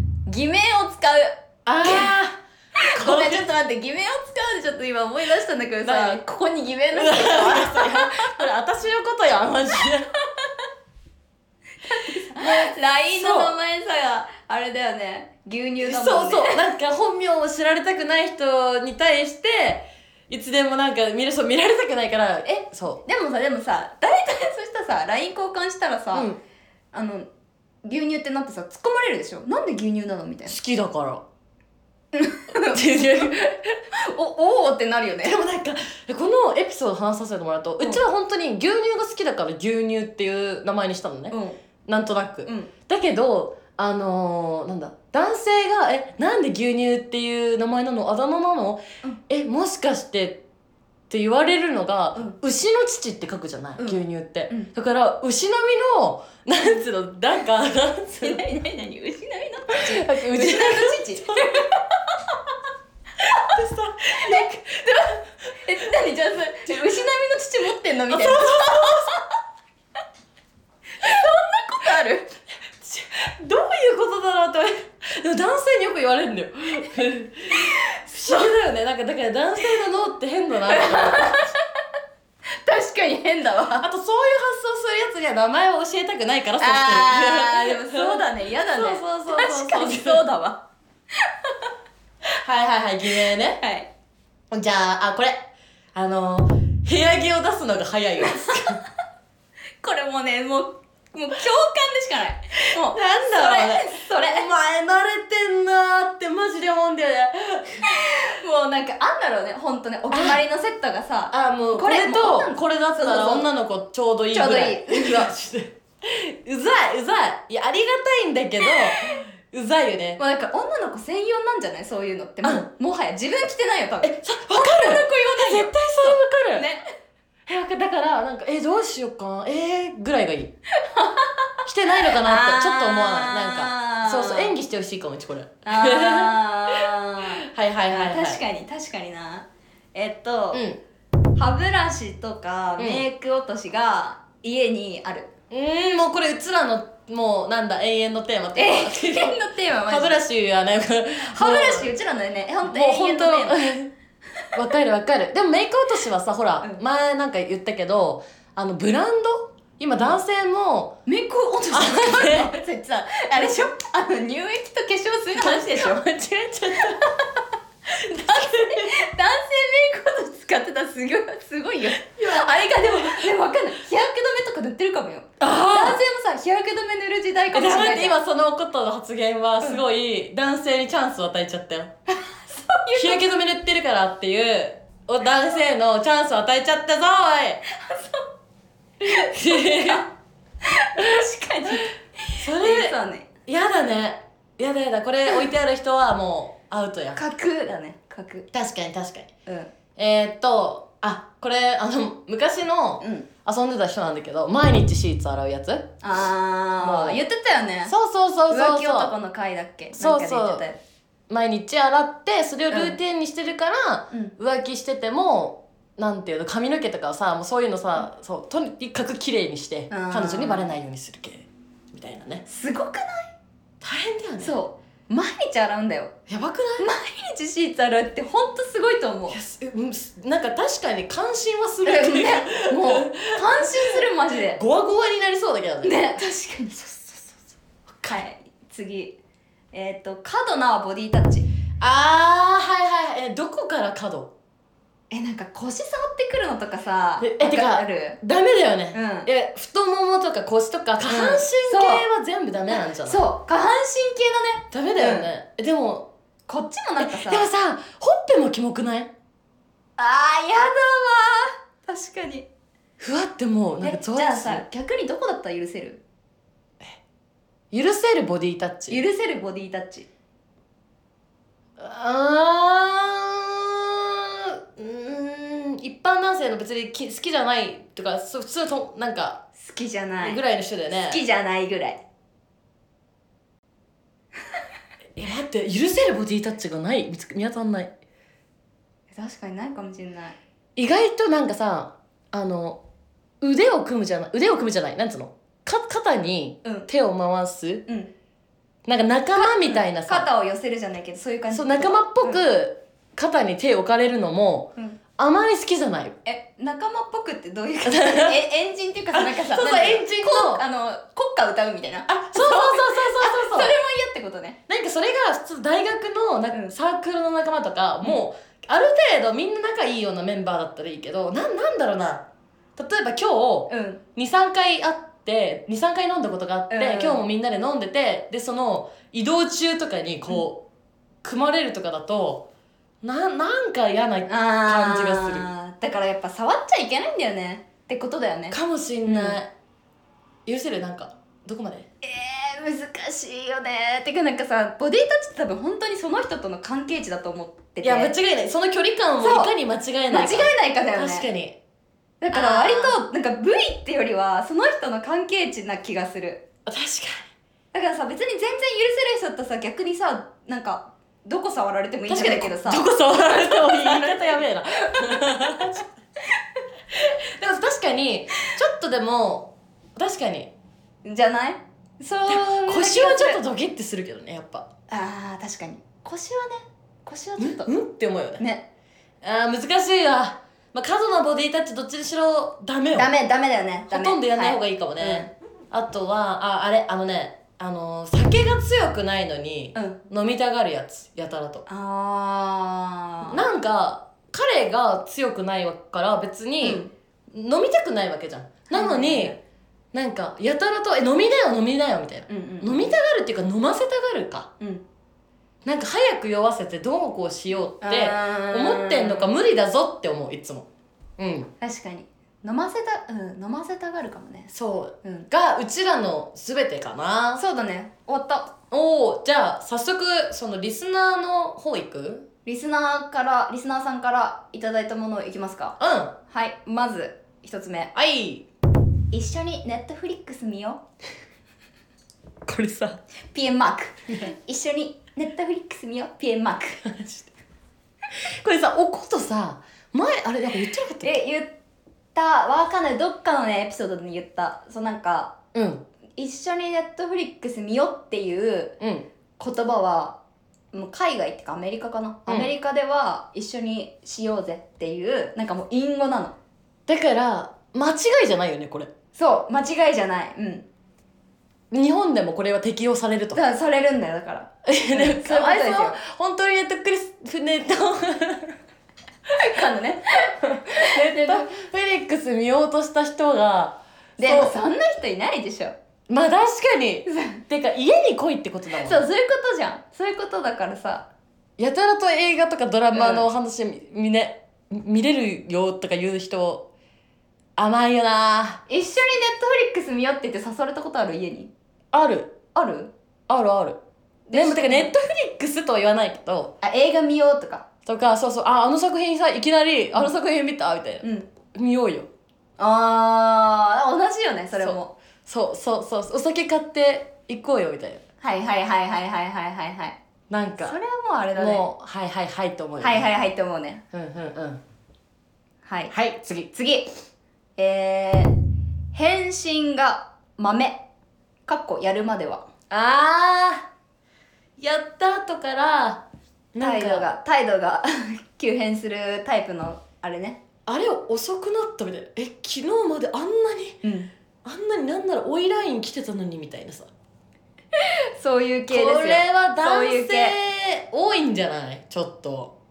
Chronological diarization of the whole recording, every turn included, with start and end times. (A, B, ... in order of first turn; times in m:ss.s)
0:00.2-0:02.1 A
0:01.6-0:03.5 B
0:02.8-0:08.4 A
0:05.8-0:06.2 B
0:06.9-0:10.1 B
0:11.9-0:16.6 A
0:12.3-0:13.5 B
0:15.8-0:23.0 B
0:22.4-0:26.3 A
0:26.1-0:26.4 B
0:26.9-0:27.3 A
0:27.8-0:30.6 A
0:30.5-0:31.2 B
0:32.1-0:35.4 A
0:32.5-0:33.8 B
0:35.2-0:50.4 B
0:41.3-0:41.6 A
0:51.1-0:58.4 B
0:53.8-0:54.7 A
0:58.2-1:02.5 A
0:59.7-1:01.6 B
1:03.2-1:03.5 A
1:03.3-1:05.0 B
1:04.1-1:09.2 A
1:08.1-1:09.2 B
1:11.0-1:12.3 A
1:12.8-1:21.5 B
1:17.6-1:18.5 A
1:20.7-1:21.6 A
1:22.5-1:23.9 A
1:23.8-1:30.2 B
1:26.6-1:31.7 A
1:32.3-1:33.6 B
1:33.2-1:33.9 A
1:34.5-1:38.8 B
1:38.3-1:38.7 A
1:39.8-1:44.5 A
1:42.6-1:48.1 B
1:47.9-1:53.5 A
1:50.1-1:50.4 B
1:51.3-2:00.2 B
1:54.3-1:55.3 A
1:58.9-1:59.1 A
2:00.2-2:06.8 A
2:04.0-2:06.7 B
2:07.5-2:10.5 B
2:10.8-2:14.6 A
2:11.6-2:18.4 B
2:15.6-2:20.6 A
2:20.5-2:20.8 B
2:21.4-2:25.3 A
2:22.8-2:23.0 B
2:25.5-2:31.9 B
2:28.6-2:30.2 A
2:31.3-2:33.6 A
2:32.6-2:33.9 B
2:34.5-2:41.0 B
2:41.1-2:46.0 A
2:41.7-2:42.6 B
2:45.4-2:47.1 B
2:46.8-2:47.4 A
2:47.9-2:58.2 A
2:47.9-2:49.0 B
2:52.0-2:53.2 B
2:55.4-2:56.0 B
2:57.5-3:01.9 B
3:02.1-3:03.4 A
3:02.9-3:07.6 B
3:07.7-3:08.3 A
3:09.0-3:10.0 A
3:09.0-3:10.1 B
3:10.6-3:13.3 A
3:12.3-3:17.2 B
3:17.1-3:18.5 A
3:18.5-3:19.3 B
3:19.5-3:19.7 A
3:20.0-3:25.9 B
3:23.0-3:23.3 A
3:26.0-3:27.9 A
3:26.8-3:27.2 B
3:27.9-3:29.1 B
3:28.5-3:30.8 A
3:30.0-3:30.6 B
3:31.3-3:42.5 B
3:32.7-3:33.0 A
3:39.9-3:40.7 A
3:42.5-3:43.3 A
3:43.8-3:44.6 B
3:44.4-3:46.1 A
3:46.3-3:46.9 B
3:46.8-3:49.4 A
3:49.3-3:56.2 B
3:51.8-3:54.6 A
3:55.8-3:56.8 A
3:56.7-3:57.4 B
3:57.9-3:58.2 B
3:58.1-3:59.2 A
3:59.7-4:01.5 A
4:01.8-4:04.3 B
4:05.1-4:08.2 A
4:07.2-4:13.2 B
4:08.9-4:09.3 A
4:11.0-4:12.0 A
4:12.7-4:15.3 A
4:14.7-4:16.1 B
4:16.5-4:17.5 A
4:17.0-4:19.1 B
4:20.0-4:22.5 A
4:23.0-4:24.6 B
4:23.8-4:26.0 A
4:27.7-4:29.0 B
4:28.9-4:30.1 A
4:31.8-4:39.4 B
4:39.6-4:42.0 A
4:40.2-4:41.2 B
4:45.2-4:47.9 B
4:49.1-4:50.4 A
4:50.8-4:52.8 B
4:53.4-4:57.8 B
4:57.9-4:58.1 A
4:58.9-5:00.3 B
4:59.4-5:02.4 A
5:01.5-5:06.2 B
5:06.2-5:14.6 A
5:07.8-5:08.4 B
5:09.1-5:10.6 B
5:12.1-5:13.7 B
5:14.7-5:22.2 B
5:22.8-5:30.6 B
5:23.7-5:24.0 A
5:26.7-5:27.2 A
5:31.2-5:32.5 B
5:33.0-5:35.5 B
5:34.3-5:39.4 A
5:38.5-5:39.5 B
5:40.5-5:41.9 B
5:42.0-5:48.1 A
5:47.8-5:51.6 B
5:49.2-5:49.5 A
5:50.1-5:51.3 A
5:52.2-5:56.4 A
5:52.3-5:53.0 B
5:56.6-5:57.3 B
5:57.7-6:05.7 A
6:02.1-6:05.9 B
6:06.9-6:10.5 B
6:11.0-6:13.4 A
6:12.3-6:14.7 B
6:14.9-6:17.7 A
6:17.4-6:18.5 B
6:18.4-6:18.6 A
6:19.2-6:23.1 B
6:22.9-6:25.3 A
6:23.9-6:31.6 B
6:31.7-6:33.4 A
6:33.2-6:39.4 B
6:36.6-6:36.9 A
6:38.7-6:39.4 A
6:39.9-6:44.5 B
6:42.3-6:42.9 A
6:45.6-6:50.7 B
6:47.8-6:49.3 A
6:51.2-6:51.5 B
6:51.6-6:54.5 A
6:54.5-6:57.4 B
6:57.4-6:58.5 A
6:58.7-7:02.2 B
7:02.4-7:05.8 A
7:05.8-7:06.1 B
7:06.3-7:07.9 A
7:07.9-7:08.5 B
7:09.1-7:10.8 A
7:12.5-7:13.0 B
7:13.3-7:16.8 A
7:16.8-7:17.3 B
7:18.2-7:21.2 B
7:21.0-7:21.5 A
7:22.1-7:25.4 A
7:25.5-7:25.8 B
7:26.2-7:28.8 A
7:28.8-7:29.0 B
7:29.4-7:30.2 A
7:30.7-7:36.4 A
7:32.2-7:32.5 B
7:36.9-7:38.9 B
7:39.1-7:40.6 A
7:41.7-7:43.4 B
7:43.3-7:46.0 A
7:44.6-7:48.6 B
7:49.3-7:51.5 A
7:50.4-7:54.6 B
7:54.2-7:55.8 A
7:56.1-7:59.0 B
7:57.1-7:57.4 A
7:58.7-8:01.1 A
8:01.6-8:06.7 B
8:02.9-8:03.3 A
8:07.6-8:08.6 B
8:08.7-8:11.5 A
8:11.9-8:12.4 B
8:12.5-8:12.9 A
8:13.3-8:13.8 B
8:14.3-8:14.9 A
8:14.3-8:16.5 B
8:16.6-8:17.6 A
8:17.9-8:22.1 B
8:21.0-8:21.3 A
8:22.6-8:24.9 A
8:24.6-8:28.0 B
8:28.2-8:30.0 A
8:30.3-8:30.8 B
8:30.6-8:31.7 A
8:31.4-8:33.1 B
8:32.8-8:33.8 A
8:33.9-8:34.6 B
8:35.6-8:35.9 A
8:35.9-8:36.5 B
8:36.5-8:36.9 A
8:37.6-8:38.3 A
8:38.9-8:40.8 A
8:41.5-8:42.5 A
8:42.7-8:43.7 B
8:44.6-8:46.0 B
8:46.5-8:47.1 B
8:46.6-8:50.4 A
8:50.7-8:53.8 B
8:53.8-8:54.1 A
8:54.4-8:56.9 B
8:57.7-9:00.4 A
8:58.7-9:02.5 B